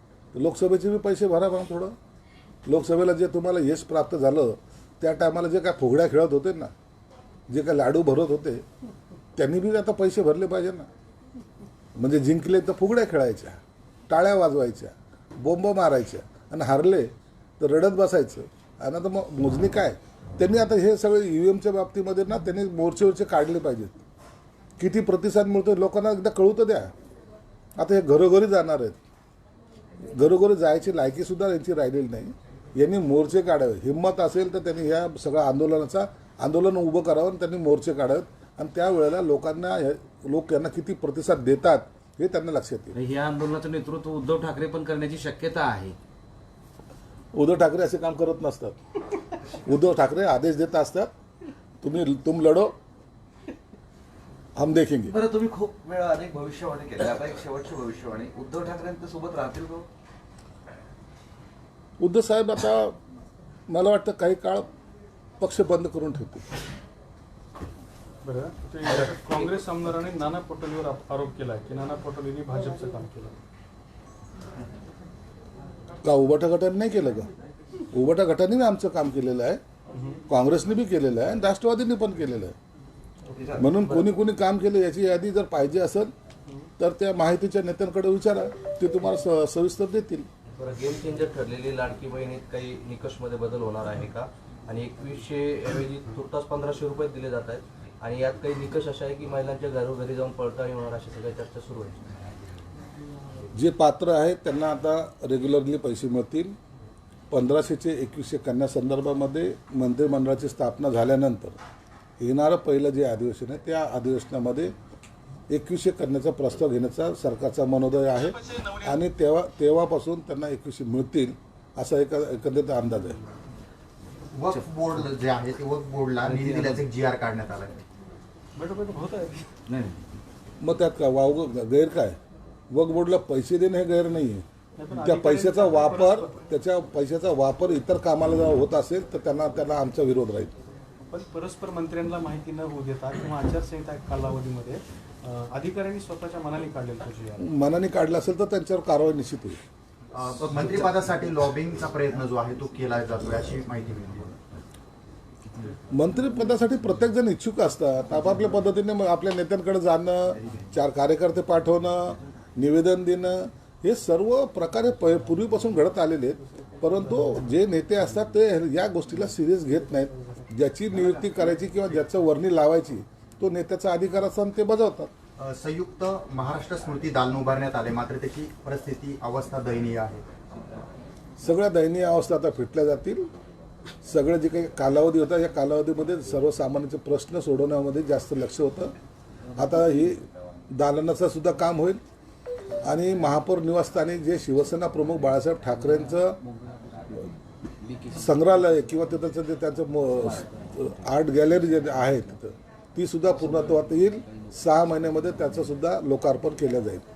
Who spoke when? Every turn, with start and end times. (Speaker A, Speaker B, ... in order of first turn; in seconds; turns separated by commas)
Speaker A: 0.3-1.9, Speaker A: 2.6-6.7, Speaker A: 7.5-8.6, Speaker A: 9.3-10.9, Speaker A: 11.9-24.0, Speaker A: 24.8-26.9, Speaker A: 27.8-29.0, Speaker A: 30.0-43.0, Speaker B: 43.0-45.7, Speaker C: 43.1-45.9, Speaker A: 47.3-48.8, Speaker A: 49.6-51.1, Speaker A: 51.8-52.7, Speaker A: 54.5-55.2, Speaker D: 55.1-59.9, Speaker A: 62.0-63.0, Speaker A: 63.7-64.7, Speaker A: 65.4-66.5, Speaker E: 68.2-73.3, Speaker A: 76.0-77.3, Speaker A: 77.9-79.6, Speaker E: 79.9-80.2, Speaker A: 80.3-82.5, Speaker D: 83.3-83.6, Speaker A: 83.6-86.1, Speaker C: 83.7-84.1, Speaker A: 86.8-90.3, Speaker C: 90.6-102.1, Speaker A: 103.5-106.5, Speaker A: 107.3-111.6, Speaker A: 112.2-114.7, Speaker A: 115.5-123.2, Speaker F: 124.3-127.8, Speaker C: 126.2-126.8, Speaker E: 128.6-129.5, Speaker B: 129.7-130.0, Speaker A: 130.6-132.2, Speaker A: 132.7-134.4, Speaker E: 134.8-136.3, Speaker A: 135.0-140.5, Speaker E: 141.1-147.5, Speaker A: 147.4-149.6, Speaker F: 150.1-154.3, Speaker A: 155.9-175.1, Speaker E: 169.8-170.5, Speaker F: 175.4-180.2, Speaker A: 181.4-183.3, Speaker A: 184.0-188.9, Speaker A: 189.6-192.0, Speaker A: 192.8-196.4, Speaker A: 198.1-207.1